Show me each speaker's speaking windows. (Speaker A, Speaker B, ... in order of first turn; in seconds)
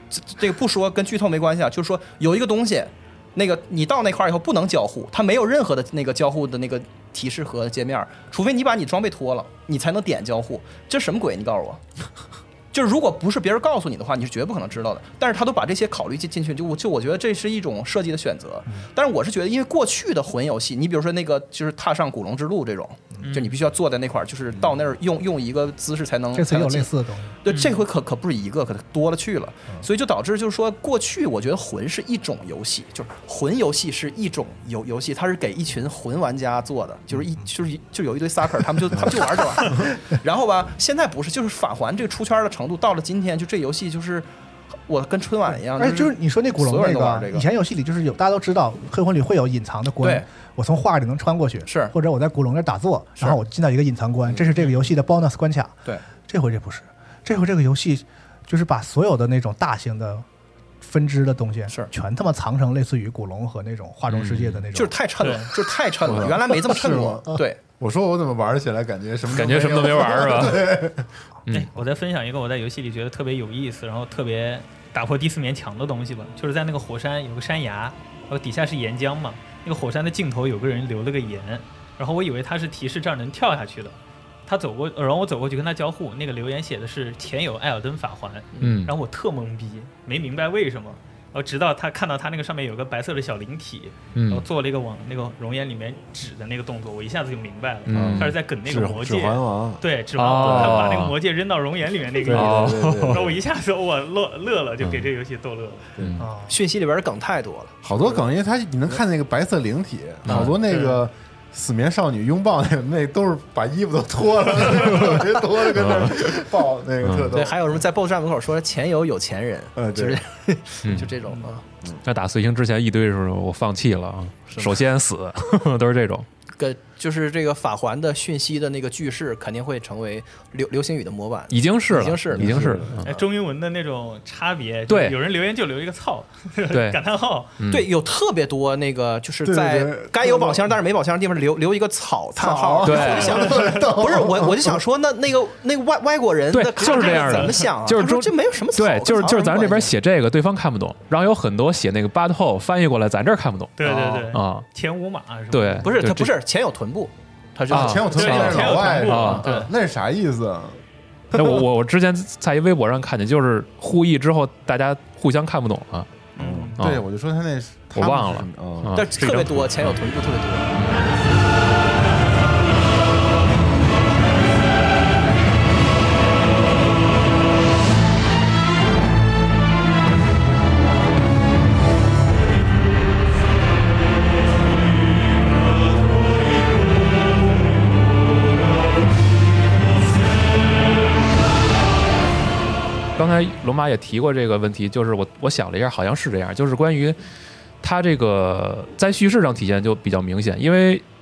Speaker A: 0.1-11.8, 12.7-44.3, 44.9-47.5, 50.0-50.2, 51.6-51.9, 54.3-54.7, 64.7-67.6, 106.5-108.2, 117.3-121.6, 124.5-124.8, 126.6-132.6, 137.7-149.9, 155.8-159.6, 168.9-170.8
Speaker B: 23.2-23.5, 27.5-27.8, 65.2-65.5, 71.5-105.9, 110.4-110.9, 133.0-137.6, 146.8-147.7, 153.8-155.9, 158.1-159.7, 166.3-166.8
Speaker C: 26.3-27.4, 45.8-60.2, 60.8-65.0, 106.2-106.6
Speaker D: 64.1-64.6, 69.3-70.7, 71.5-71.7, 88.6-88.9, 94.1-94.5, 97.8-98.3, 100.2-101.2, 102.3-103.3, 104.8-105.1, 106.0-106.2, 110.2-110.6, 115.7-116.2, 117.0-117.3, 120.8-121.2, 122.0-126.2, 131.5-133.1, 134.9-135.2, 136.7-137.0, 137.6-137.9, 142.8-143.5, 146.5-154.6, 155.5-156.3, 157.7-159.5, 161.3-166.1, 167.9-169.9, 170.8-171.1, 193.2-197.2, 197.8-201.0
Speaker E: 66.0-71.1, 97.9-101.0, 102.2-103.4, 106.0-106.2, 107.8-117.8, 119.8-120.2, 132.3-133.0, 139.4-140.7, 142.3-144.8, 157.7-160.8, 161.3-161.6, 166.4-169.1